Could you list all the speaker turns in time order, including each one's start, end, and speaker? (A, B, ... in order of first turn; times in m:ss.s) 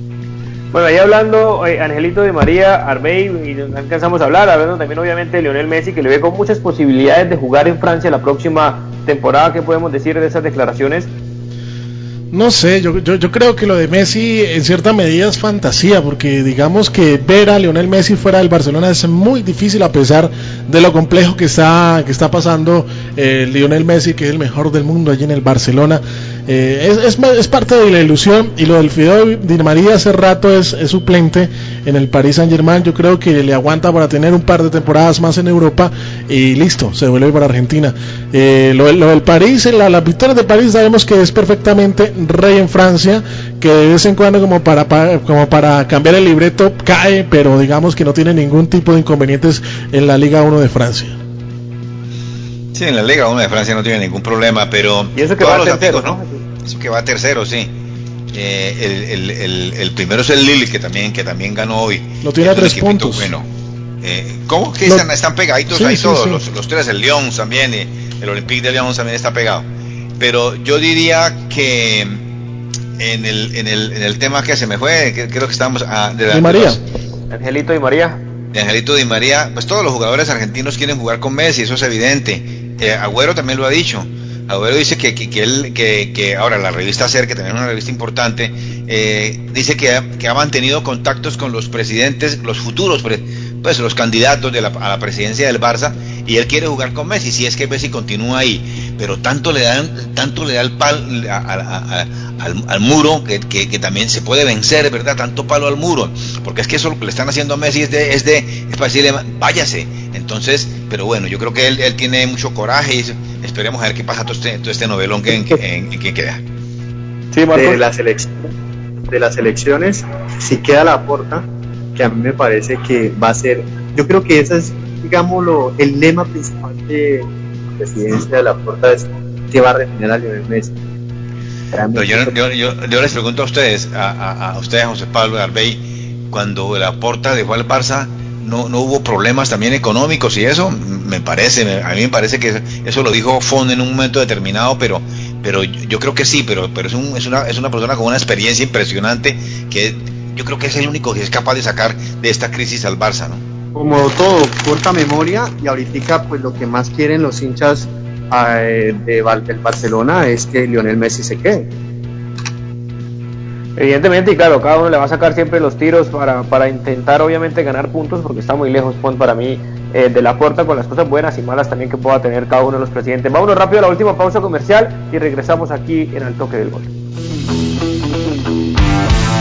0:00.7-0:11.1 A
0:12.3-0:51.2 B
0:52.7-0:57.7 C
0:55.2-0:56.4 A
0:58.3-1:03.5 C
1:02.2-1:03.3 B
1:04.0-1:09.6 C
1:05.7-1:06.4 B
1:10.2-1:12.2 C
1:13.0-1:16.8 C
1:16.3-1:16.8 B
1:17.3-1:18.2 A
1:18.5-1:56.4 C
1:57.3-1:57.8 A
1:57.5-1:58.5 D
1:59.0-2:10.7 D
2:11.7-2:12.3 D
2:11.9-2:33.4 C
2:33.8-2:41.7 D
2:43.8-2:56.9 A